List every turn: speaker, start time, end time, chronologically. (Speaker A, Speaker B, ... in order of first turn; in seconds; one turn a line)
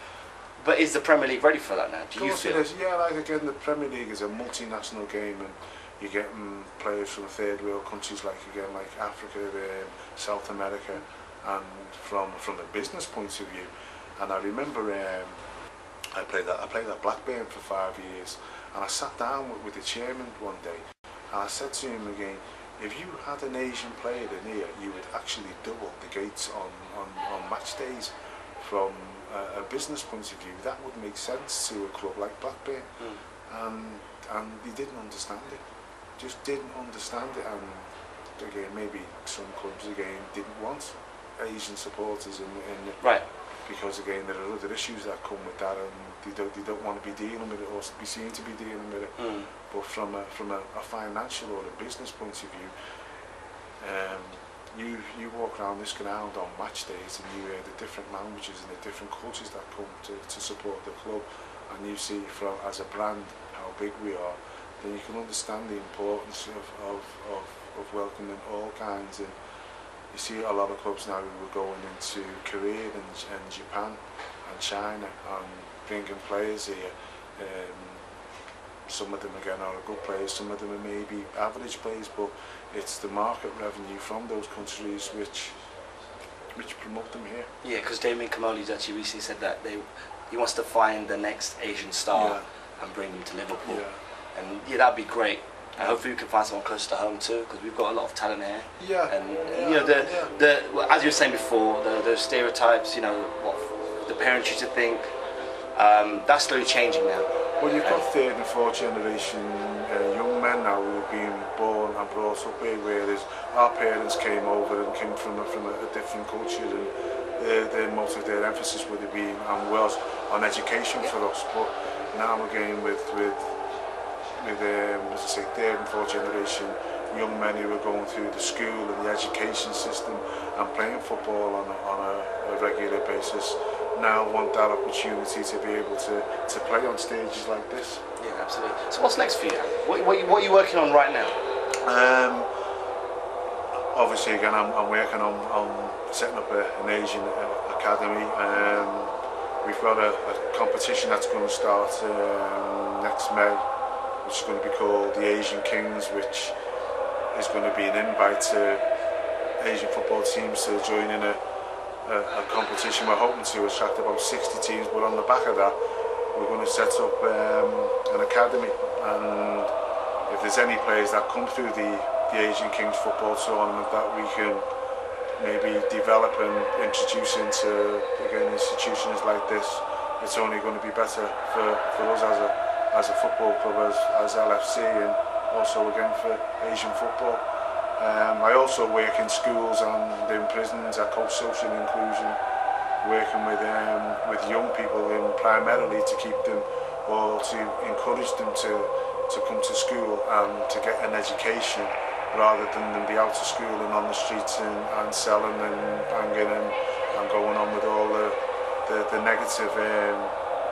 Speaker A: 0.6-2.6
Speaker B: 2.1-15.3
Speaker B: 16.1-32.9
Speaker B: 33.5-35.6
Speaker B: 36.2-43.0
Speaker B: 43.6-52.7
Speaker A: 49.2-49.5
Speaker B: 53.8-69.3
Speaker B: 70.1-78.0
Speaker B: 78.9-85.5
Speaker B: 86.5-87.5
Speaker A: 87.6-105.1
Speaker B: 92.1-92.5
Speaker B: 93.6-94.0
Speaker B: 98.8-100.3
Speaker A: 105.7-107.3
Speaker B: 107.6-123.5
Speaker B: 124.4-138.0
Speaker A: 138.2-141.3
Speaker B: 141.8-142.5
Speaker B: 143.9-153.6
Speaker B: 154.2-156.5
Speaker B: 157.3-158.8
Speaker B: 159.6-161.4
Speaker B: 162.0-165.8
Speaker B: 166.3-169.7
Speaker B: 170.3-174.6
Speaker B: 175.4-187.4
Speaker B: 188.0-192.4
Speaker B: 193.0-210.3